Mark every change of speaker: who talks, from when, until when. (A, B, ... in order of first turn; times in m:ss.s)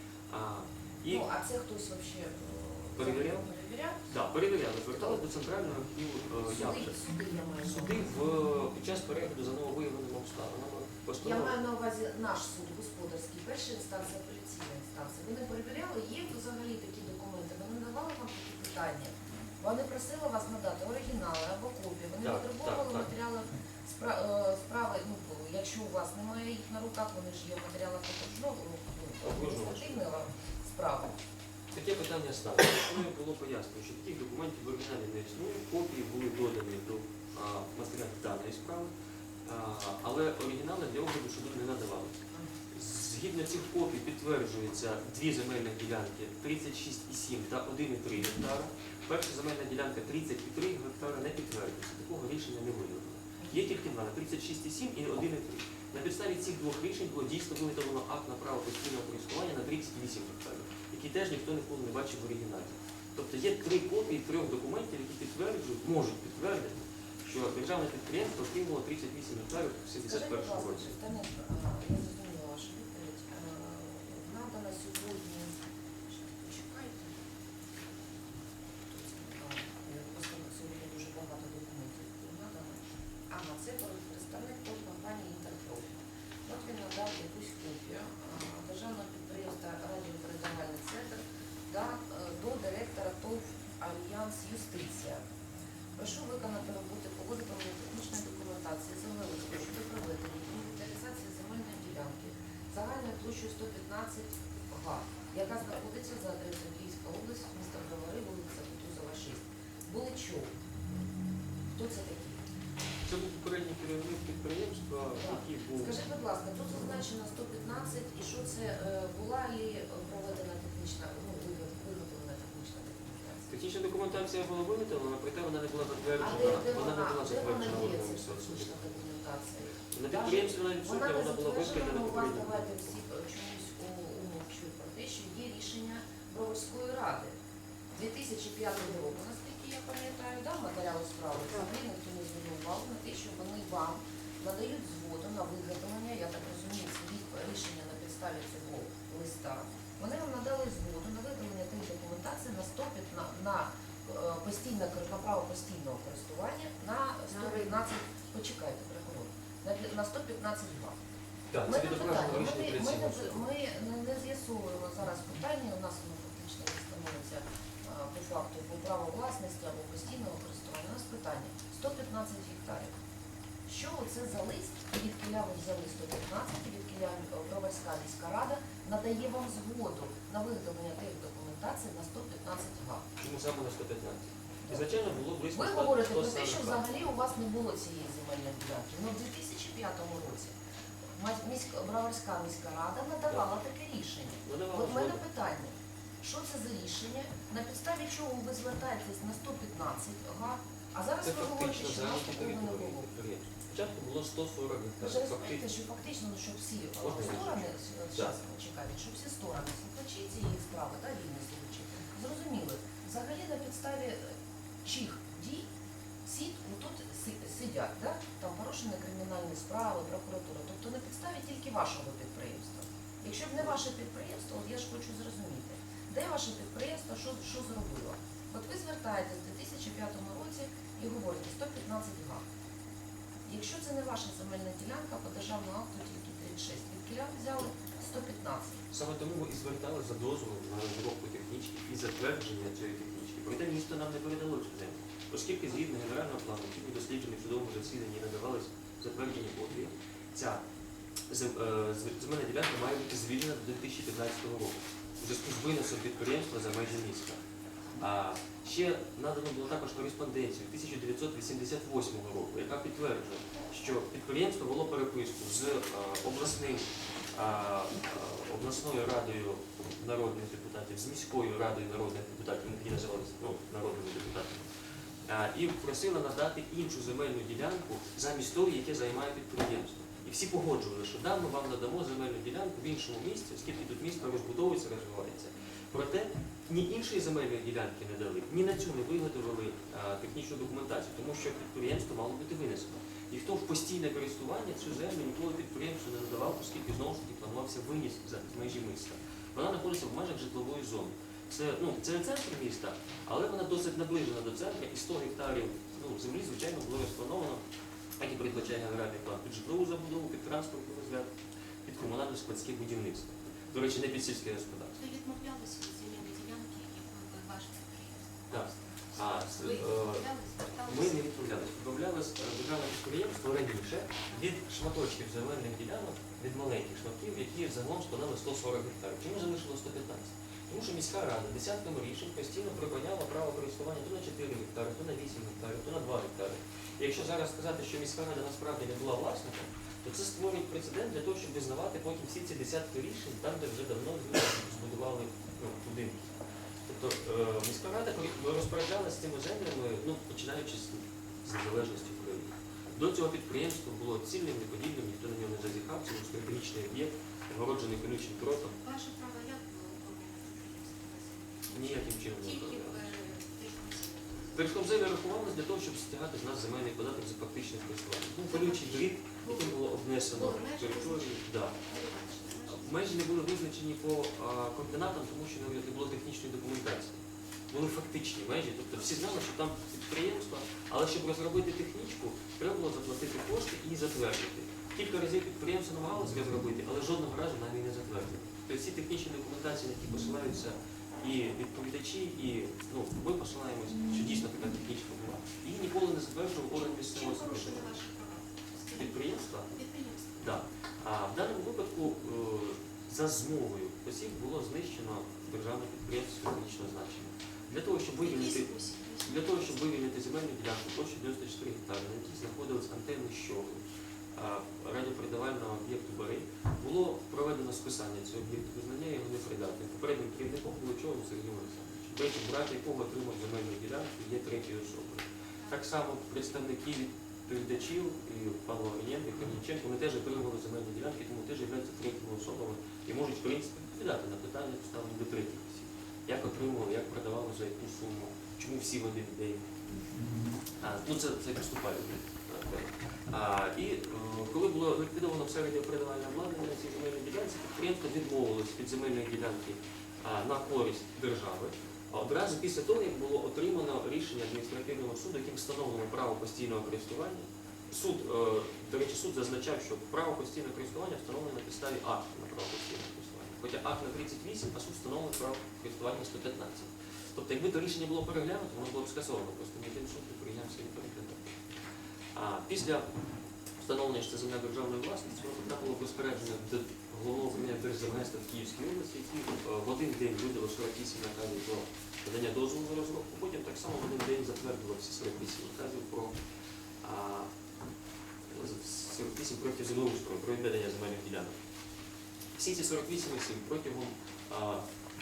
0:00.3-0:01.3 A
0:01.1-0:04.0 B
0:03.0-0:03.4 A
0:04.1-0:07.0 A
0:04.9-0:05.2 B
0:06.4-0:08.1 B
0:07.6-0:11.6 A
0:11.2-0:31.1 B
0:22.2-0:23.1 A
0:29.2-0:30.0 A
0:31.7-0:38.9 A
0:39.4-1:10.9 A
1:10.0-1:17.2 B
1:18.9-1:35.2 B
1:36.0-1:50.5 B
1:51.7-1:52.4 B
1:53.0-1:56.0 A
1:55.2-2:03.5 B
2:03.5-2:09.0 A
2:06.2-2:17.4 B
2:09.9-2:13.0 A
2:17.9-2:41.0 B
2:41.5-2:43.4 A
2:41.6-2:52.9 B
2:53.6-3:03.0 B
3:03.2-3:06.8 A
3:04.6-3:04.9 B
3:05.5-3:10.6 B
3:11.1-3:23.1 B
3:14.4-3:15.2 A
3:21.2-3:25.6 A
3:25.0-3:35.7 B
3:27.0-3:28.4 A
3:36.2-3:52.4 B
3:53.4-3:58.8 B
3:58.9-4:10.6 A
4:11.3-4:17.4 A
4:18.0-4:34.7 A
4:35.2-5:07.6 A
5:08.2-5:11.3 A
5:11.8-5:15.0 A
5:15.0-5:21.3 C
5:18.5-5:20.3 A
5:20.8-5:46.3 A
5:24.3-5:24.6 C
5:46.9-5:58.7 A
5:58.7-6:05.1 C
6:01.7-6:03.1 A
6:04.5-6:11.8 A
6:08.5-6:13.3 C
6:12.7-6:38.0 A
6:36.8-6:40.4 C
6:38.9-6:39.7 A
6:40.4-6:53.8 A
6:48.2-6:50.0 C
6:54.3-7:19.7 A
7:20.8-7:51.4 A
7:52.3-7:53.1 A
7:53.8-8:06.4 A
8:07.0-8:07.5 A
8:08.5-8:11.6 A
8:12.6-8:14.8 A